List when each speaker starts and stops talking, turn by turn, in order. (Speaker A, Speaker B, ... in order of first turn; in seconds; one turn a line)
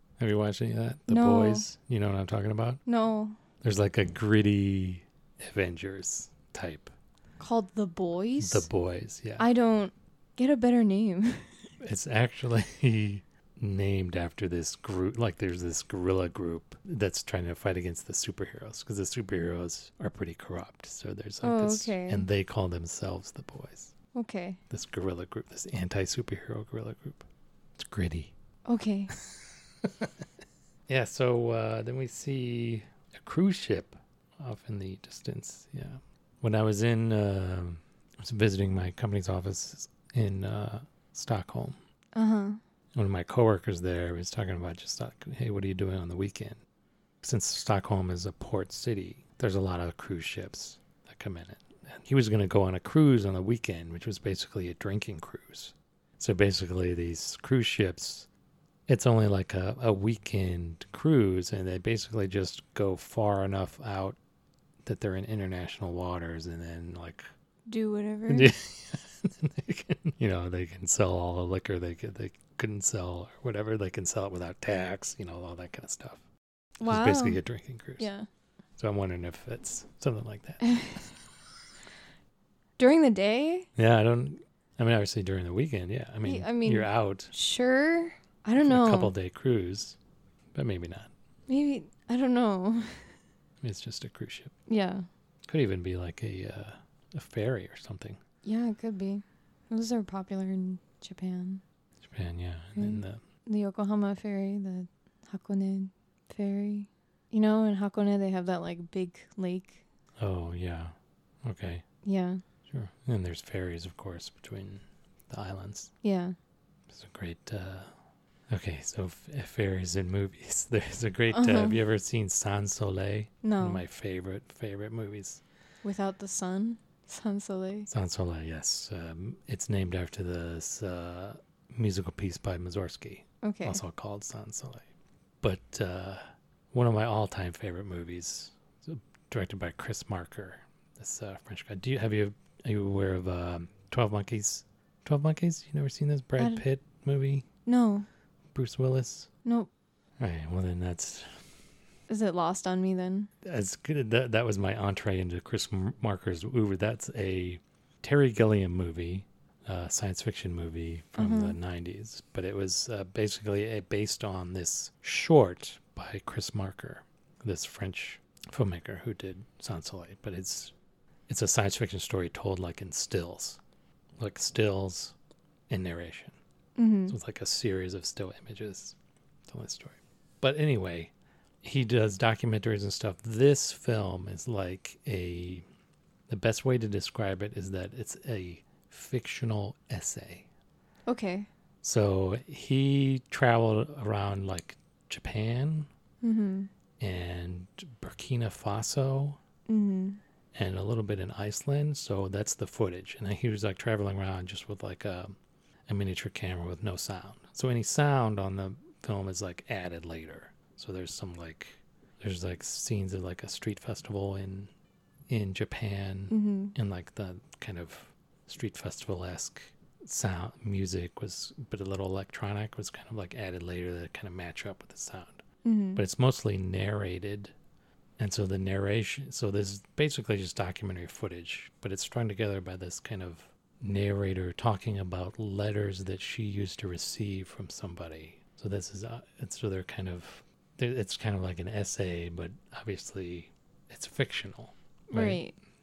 Speaker A: 0.2-2.8
Speaker B: 1.1-1.7
Speaker B: 2.9-3.4
Speaker A: 3.6-6.9
Speaker B: 7.4-8.7
Speaker A: 8.4-9.5
Speaker B: 9.4-11.5
Speaker A: 11.8-23.9
Speaker B: 21.4-22.3
Speaker B: 24.1-24.6
Speaker A: 24.7-27.2
Speaker A: 27.8-28.3
Speaker B: 28.6-29.1
Speaker A: 29.8-30.1
Speaker A: 30.9-41.8
Speaker B: 42.1-42.6
Speaker A: 42.9-46.6
Speaker A: 47.2-58.3
Speaker A: 58.9-64.2
Speaker A: 64.8-67.3
Speaker B: 67.7-68.5
Speaker A: 68.3-76.2
Speaker B: 76.8-77.4
Speaker A: 76.8-78.1
Speaker B: 78.0-78.3
Speaker A: 78.8-81.0
Speaker B: 80.6-81.0
Speaker B: 82.8-83.7
Speaker A: 83.8-87.3
Speaker B: 86.2-89.1
Speaker A: 88.6-90.0
Speaker A: 90.5-91.1
Speaker B: 91.5-93.1
Speaker A: 93.6-94.5
Speaker B: 94.7-95.1
Speaker A: 95.5-98.2
Speaker B: 98.4-101.6
Speaker A: 102.0-103.2
Speaker B: 102.8-109.8
Speaker A: 110.2-111.8
Speaker B: 112.0-112.4
Speaker A: 112.7-115.9
Speaker B: 116.0-116.3
Speaker A: 116.9-117.9
Speaker A: 118.5-125.4
Speaker B: 121.3-121.8
Speaker B: 123.4-123.8
Speaker B: 125.8-127.9
Speaker A: 127.9-134.9
Speaker B: 133.4-133.8
Speaker A: 135.4-147.4
Speaker B: 146.4-146.6
Speaker B: 147.7-148.1
Speaker A: 148.5-149.3
Speaker B: 149.4-149.7
Speaker A: 150.2-151.3
Speaker B: 152.1-153.3
Speaker A: 153.4-170.7
Speaker B: 161.2-161.6
Speaker A: 171.3-173.6
Speaker A: 174.2-175.1
Speaker A: 175.7-176.4
Speaker B: 176.8-177.1
Speaker A: 177.1-178.9
Speaker A: 179.5-185.6
Speaker A: 186.3-190.5
Speaker B: 191.1-191.5
Speaker A: 191.8-195.9
Speaker B: 196.2-196.7
Speaker A: 197.0-199.4
Speaker B: 199.7-200.2
Speaker A: 200.5-205.4
Speaker A: 205.9-214.7
Speaker A: 215.3-225.4
Speaker B: 216.3-216.7
Speaker B: 225.6-226.0
Speaker A: 225.9-227.5
Speaker A: 228.2-245.4
Speaker B: 245.1-245.5